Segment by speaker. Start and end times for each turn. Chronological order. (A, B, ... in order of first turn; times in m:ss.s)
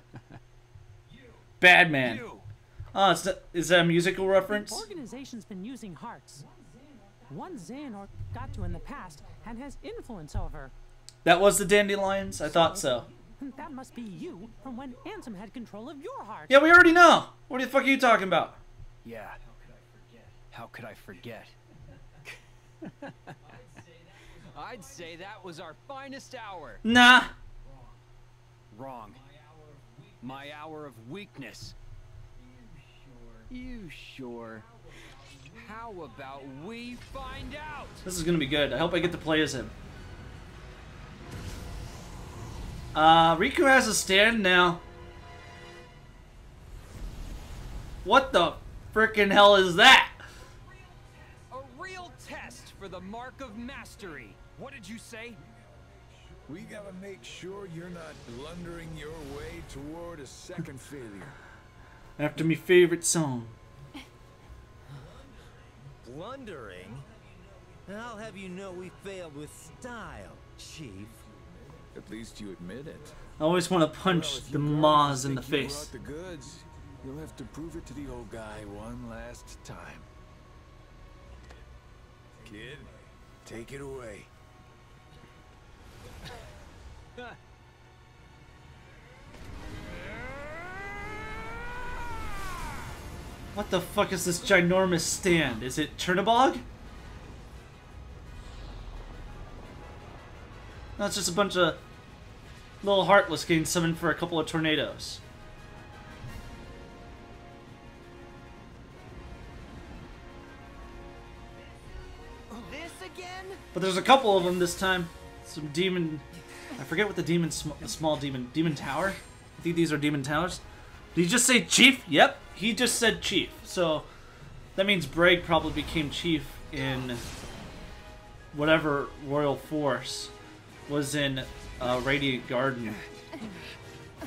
0:01.6-0:02.2 A
0:02.0-0:02.4 B
0:02.9-0:04.8 A
0:04.4-0:06.5 C
0:07.2-0:10.7 C
0:11.2-0:13.1 A
0:12.4-0:16.6 C
0:16.5-0:18.6 A
0:19.0-0:21.5 B
0:24.3-0:26.8 B
0:26.8-0:27.3 A
0:28.7-0:31.7 B
0:33.5-0:34.7 B
0:35.5-0:38.0 B
0:38.0-0:39.7 A
0:42.9-0:44.8 A
0:48.0-0:50.2 A
0:51.5-0:55.4 B
0:56.5-1:01.4 D
1:02.2-1:03.6 A
1:06.0-1:07.0 E
1:07.9-1:11.1 E
1:11.9-1:13.2 D
1:13.4-1:15.9 A
1:14.0-1:20.1 D
1:22.4-1:24.3 D
1:33.5-1:36.6 A
1:41.0-1:41.8 A
1:42.8-1:45.2 A
1:53.7-2:00.6 A
2:01.1-2:04.1 A
2:04.8-2:07.2 A
2:08.5-2:10.3 A
2:10.9-2:13.0 A